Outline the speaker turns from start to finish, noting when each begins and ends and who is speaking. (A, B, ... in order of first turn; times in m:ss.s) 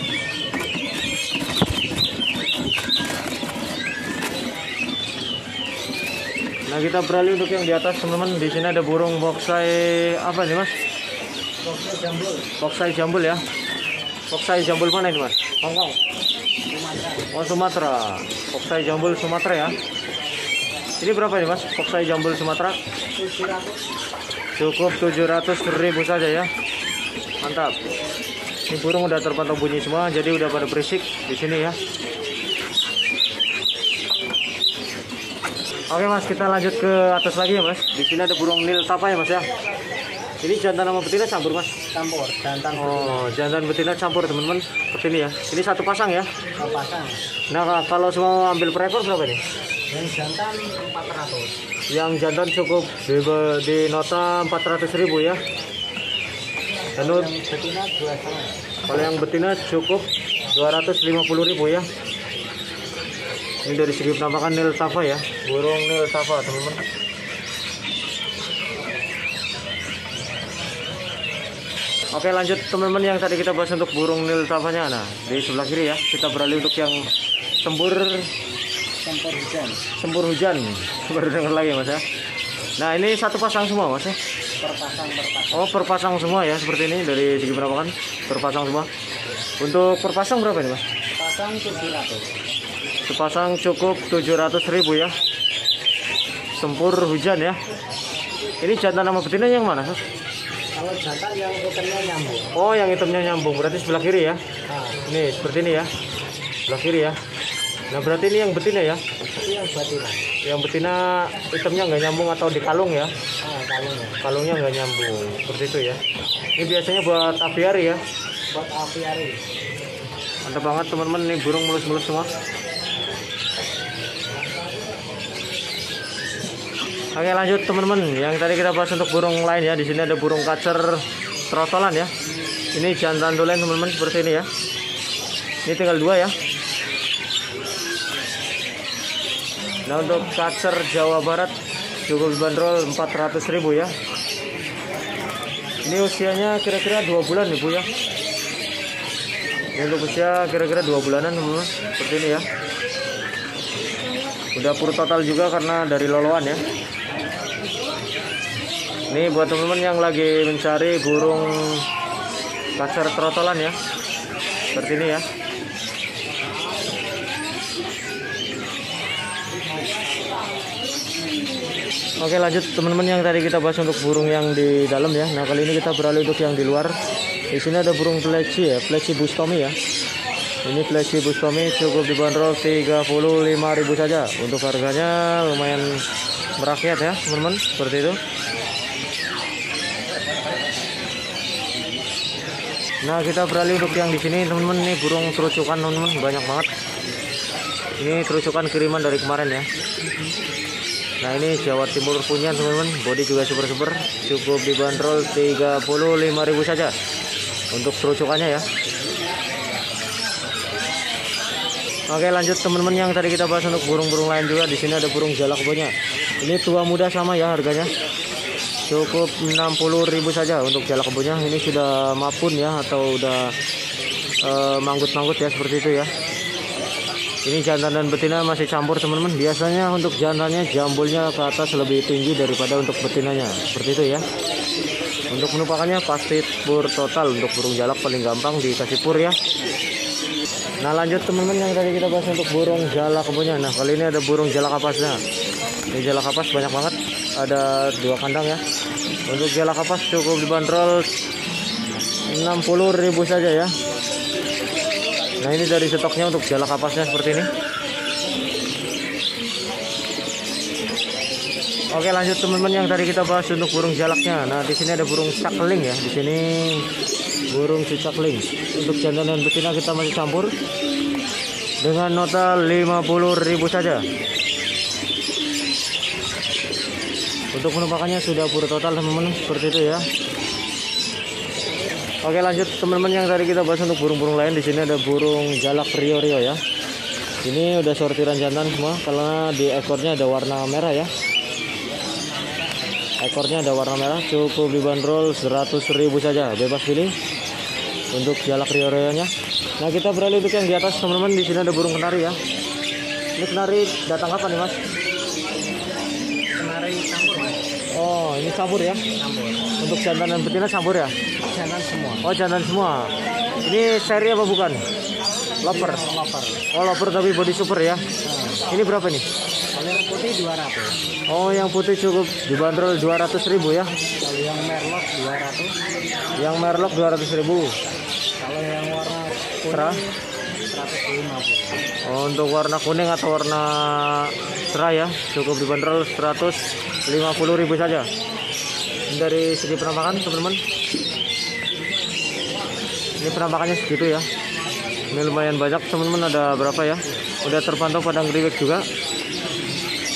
0:06.7-0:10.8 A
0:11.6-0:12.5 B
0:12.6-0:13.4 A
0:14.3-0:16.0 A
0:16.7-0:17.4 B
0:17.3-0:19.8 A
0:21.0-0:22.8 A
0:23.2-0:23.8 B
0:24.6-0:26.5 A
0:27.4-0:27.8 A
0:28.7-0:31.8 A
0:35.9-0:39.5 A
0:40.4-0:41.8 A
0:41.9-0:43.3 B
0:42.8-0:46.3 A
0:46.6-0:47.2 B
0:47.5-0:49.4 A
0:49.9-0:51.5 B
0:51.9-0:55.4 A
0:57.0-0:58.6 B
0:57.0-0:57.3 A
0:58.9-1:01.9 A
1:03.6-1:06.8 A
1:12.1-1:17.0 A
1:17.6-1:18.3 A
1:19.0-1:19.9 B
1:20.0-1:22.0 A
1:22.8-1:24.2 A
1:24.6-1:25.7 B
1:25.5-1:28.9 A
1:29.6-1:30.8 A
1:31.2-1:32.3 B
1:33.1-1:35.2 A
1:36.6-1:37.6 A
1:38.6-1:40.0 A
1:40.8-1:42.5 B
1:42.6-1:44.4 A
1:44.7-1:45.0 B
1:45.1-1:45.9 A
1:46.7-1:47.2 A
1:47.9-1:49.0 A
1:49.4-1:50.3 B
1:50.4-1:53.1 A
1:53.4-1:54.2 B
1:54.2-1:56.0 A
1:56.6-1:58.0 A
1:58.5-1:59.4 B
2:00.4-2:02.3 A
2:07.1-2:12.1 A
2:12.7-2:14.5 A
2:15.7-2:16.4 A
2:19.9-2:23.9 A
2:25.8-2:27.9 A
2:29.8-2:32.5 A
2:34.6-2:36.6 A
2:39.1-2:41.9 A
2:42.8-2:43.8 A
2:44.7-2:45.2 A
2:52.2-2:57.0 A
2:57.5-2:59.8 A
3:00.6-3:06.0 A
3:06.6-3:08.2 A
3:13.0-3:16.7 A
3:18.0-3:19.7 A
3:21.2-3:27.0 A
3:27.7-3:28.7 A
3:32.1-3:37.9 A
3:38.9-3:43.6 A
3:44.4-3:46.1 A
3:47.4-3:54.2 A
3:55.3-3:59.4 A
4:00.8-4:05.2 A
4:05.9-4:08.6 A
4:09.3-4:11.1 A
4:12.3-4:13.8 A
4:15.4-4:17.5 A
4:21.9-4:26.9 A
4:27.5-4:30.6 A
4:31.8-4:34.1 A
4:37.5-4:40.1 A
4:42.2-4:46.6 A
4:47.4-4:51.1 A
4:52.0-4:52.9 B
4:53.2-4:57.2 A
4:58.1-5:02.4 A
5:03.4-5:04.8 A
5:06.6-5:07.7 B
5:07.9-5:09.0 A
5:09.2-5:09.7 B
5:09.8-5:11.1 A
5:11.4-5:12.3 B
5:12.2-5:14.9 A
5:15.6-5:16.0 A
5:15.6-5:16.6 B
5:16.7-5:18.1 A
5:18.2-5:18.7 B
5:18.7-5:19.2 A
5:19.7-5:20.9 B
5:21.3-5:23.9 A
5:24.2-5:25.7 B
5:26.4-5:27.8 A
5:28.4-5:30.1 B
5:29.7-5:30.0 A
5:30.7-5:31.8 B
5:32.0-5:38.1 A
5:39.1-5:40.6 A
5:43.2-5:44.3 A
5:45.1-5:48.8 A